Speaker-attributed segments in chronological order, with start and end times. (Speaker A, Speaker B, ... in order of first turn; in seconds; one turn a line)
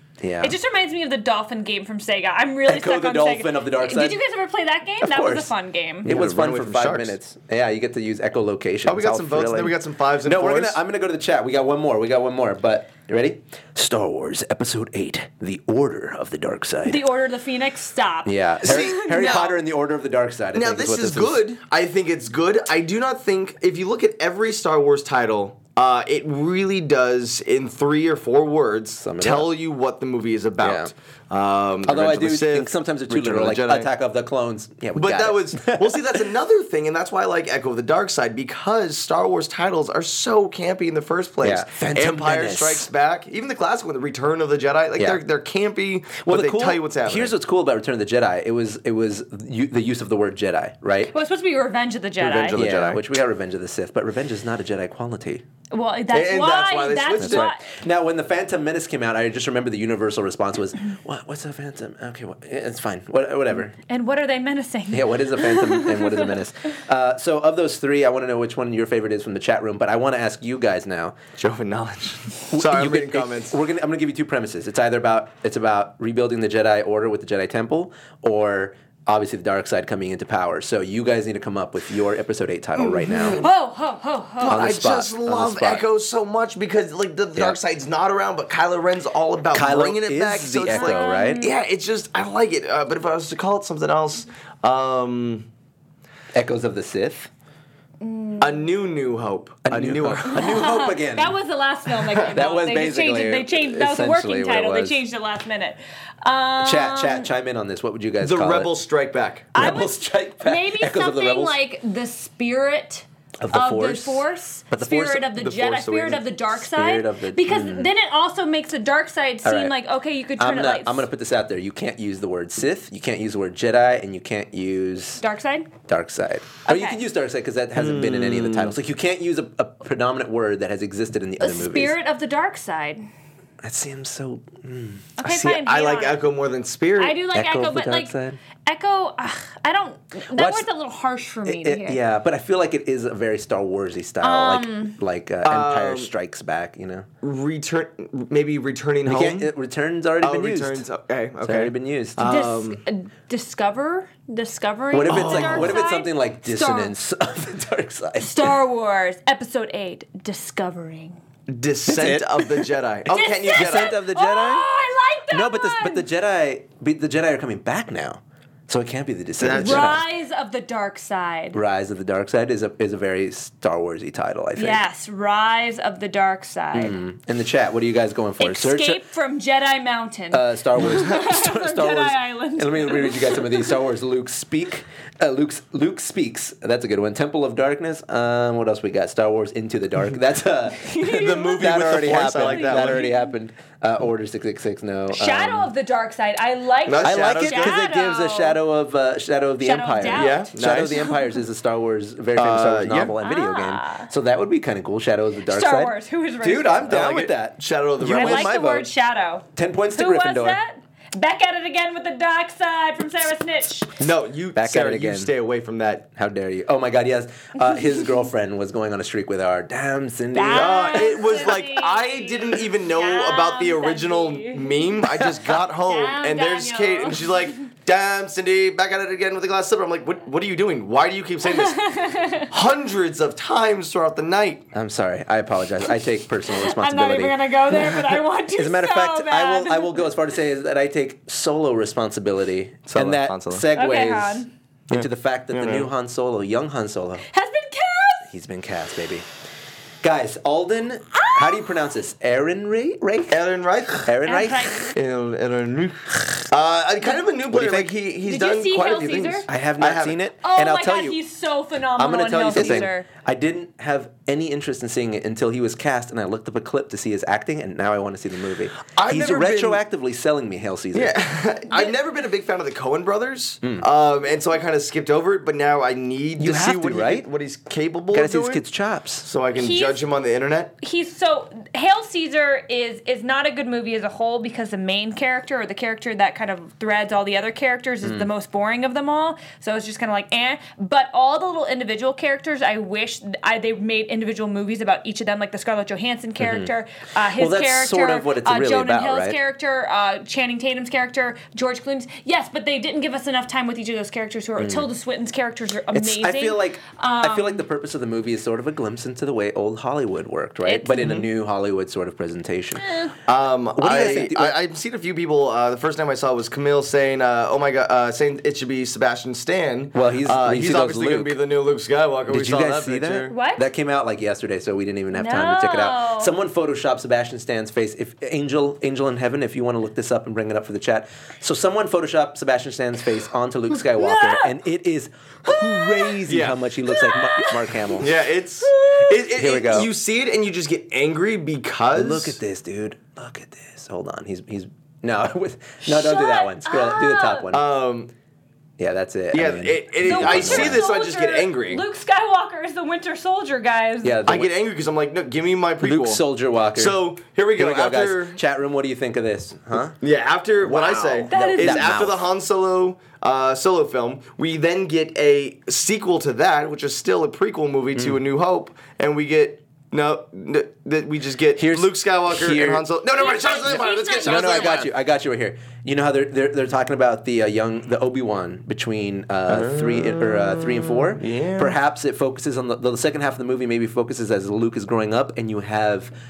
Speaker A: 0.2-0.6
Speaker B: 0.4-6.1
Speaker A: 2.7-4.2
Speaker A: 5.0-5.5
Speaker A: 6.0-17.1
Speaker C: 6.0-7.1
Speaker C: 8.9-10.8
Speaker B: 16.9-19.5
Speaker A: 18.2-21.5
Speaker C: 18.6-19.6
Speaker C: 20.5-33.9
Speaker A: 29.0-29.6
Speaker A: 30.6-30.9
Speaker A: 31.9-36.3
Speaker C: 35.0-47.3
Speaker A: 41.4-42.9
Speaker A: 45.0-45.2
Speaker A: 46.2-51.1
Speaker B: 51.1-52.6
Speaker C: 52.2-53.0
Speaker A: 52.5-55.4
Speaker B: 55.7-57.6
Speaker C: 56.1-57.5
Speaker A: 57.2-63.8
Speaker B: 63.9-66.3
Speaker A: 64.9-71.2
Speaker C: 71.4-73.6
Speaker A: 72.5-83.5
Speaker C: 82.8-83.5
Speaker B: 83.4-84.8
Speaker C: 84.4-95.5
Speaker A: 84.5-85.9
Speaker A: 89.5-91.5
Speaker B: 90.7-91.5
Speaker A: 96.3-97.3
Speaker B: 98.0-98.7
Speaker C: 98.4-100.6
Speaker A: 99.7-101.4
Speaker B: 100.3-107.3
Speaker A: 102.3-105.0
Speaker A: 106.6-108.8
Speaker C: 108.2-109.5
Speaker A: 109.5-111.6
Speaker B: 109.5-121.1
Speaker A: 113.4-115.3
Speaker C: 115.2-116.2
Speaker A: 116.5-117.9
Speaker A: 119.4-119.8
Speaker A: 120.4-125.2
Speaker B: 125.2-125.7
Speaker A: 125.9-132.0
Speaker B: 126.7-127.0
Speaker C: 127.8-128.7
Speaker B: 131.4-133.0
Speaker A: 133.6-135.1
Speaker B: 135.2-136.2
Speaker C: 135.2-137.2
Speaker B: 137.0-142.0
Speaker A: 137.3-138.4
Speaker A: 140.3-140.7
Speaker A: 141.5-147.1
Speaker B: 144.2-145.0
Speaker C: 145.4-146.1
Speaker C: 147.2-149.5
Speaker A: 149.1-150.8
Speaker C: 150.2-152.8
Speaker A: 151.4-152.3
Speaker B: 152.2-156.9
Speaker A: 154.9-158.6
Speaker C: 155.1-155.8
Speaker B: 158.2-161.2
Speaker C: 161.5-164.0
Speaker A: 161.9-162.7
Speaker B: 163.1-166.1
Speaker A: 163.5-164.7
Speaker A: 165.3-170.0
Speaker C: 169.4-170.0
Speaker B: 169.5-171.6
Speaker A: 171.5-174.8
Speaker B: 174.6-177.0
Speaker A: 176.7-179.0
Speaker B: 178.4-183.7
Speaker A: 180.3-195.7
Speaker B: 190.8-193.3
Speaker C: 191.1-193.1
Speaker B: 195.1-198.6
Speaker C: 196.8-197.8
Speaker A: 197.0-208.9
Speaker B: 199.6-201.2
Speaker C: 200.1-201.1
Speaker C: 202.4-203.1
Speaker B: 203.2-204.1
Speaker B: 205.5-206.9
Speaker C: 206.9-208.6
Speaker B: 208.1-213.9
Speaker A: 209.6-210.6
Speaker C: 214.0-216.1
Speaker A: 214.5-215.3
Speaker A: 216.2-221.4
Speaker B: 220.3-227.3
Speaker C: 220.4-234.7
Speaker B: 231.6-232.5
Speaker A: 234.7-237.9
Speaker B: 236.5-240.1
Speaker A: 238.5-247.3
Speaker C: 242.9-243.7
Speaker B: 243.7-244.5
Speaker C: 244.9-245.9
Speaker B: 247.3-248.3
Speaker A: 248.3-249.3
Speaker A: 250.0-253.4
Speaker B: 251.2-251.7
Speaker C: 253.3-254.1
Speaker A: 254.0-254.8
Speaker B: 254.2-254.9
Speaker C: 254.9-260.2
Speaker A: 257.5-257.9
Speaker B: 258.2-259.5
Speaker A: 259.5-261.2
Speaker B: 260.4-263.1
Speaker A: 262.0-271.1
Speaker C: 262.5-262.9
Speaker C: 268.9-269.8
Speaker C: 270.9-278.6
Speaker B: 271.7-271.9
Speaker A: 276.4-277.3
Speaker A: 278.1-279.3
Speaker C: 279.2-280.7
Speaker B: 279.6-280.0
Speaker B: 280.8-307.6
Speaker A: 288.0-288.3
Speaker A: 296.4-296.7
Speaker A: 297.4-299.4
Speaker A: 304.6-304.9
Speaker A: 305.9-312.9
Speaker B: 310.6-311.1
Speaker B: 312.8-313.1
Speaker C: 313.3-323.4
Speaker A: 313.8-314.6
Speaker A: 319.9-321.4
Speaker A: 322.3-338.2
Speaker B: 323.3-323.7
Speaker B: 325.1-326.3
Speaker B: 334.0-334.6
Speaker B: 335.5-336.2
Speaker C: 336.3-336.6
Speaker B: 336.9-337.9
Speaker C: 338.0-342.4
Speaker B: 338.7-339.2
Speaker A: 339.4-339.9
Speaker A: 341.9-347.8
Speaker B: 345.8-347.5
Speaker C: 347.5-348.1
Speaker A: 348.8-350.9
Speaker C: 349.3-351.8
Speaker B: 350.0-354.2
Speaker A: 354.0-354.5
Speaker C: 354.3-356.2
Speaker A: 355.8-357.0
Speaker C: 356.8-358.4
Speaker A: 357.6-360.0
Speaker C: 360.0-374.9
Speaker A: 360.6-362.3
Speaker B: 361.3-362.0
Speaker A: 367.9-368.2
Speaker A: 371.6-372.9
Speaker B: 373.2-374.8
Speaker A: 373.5-386.1
Speaker C: 379.5-381.8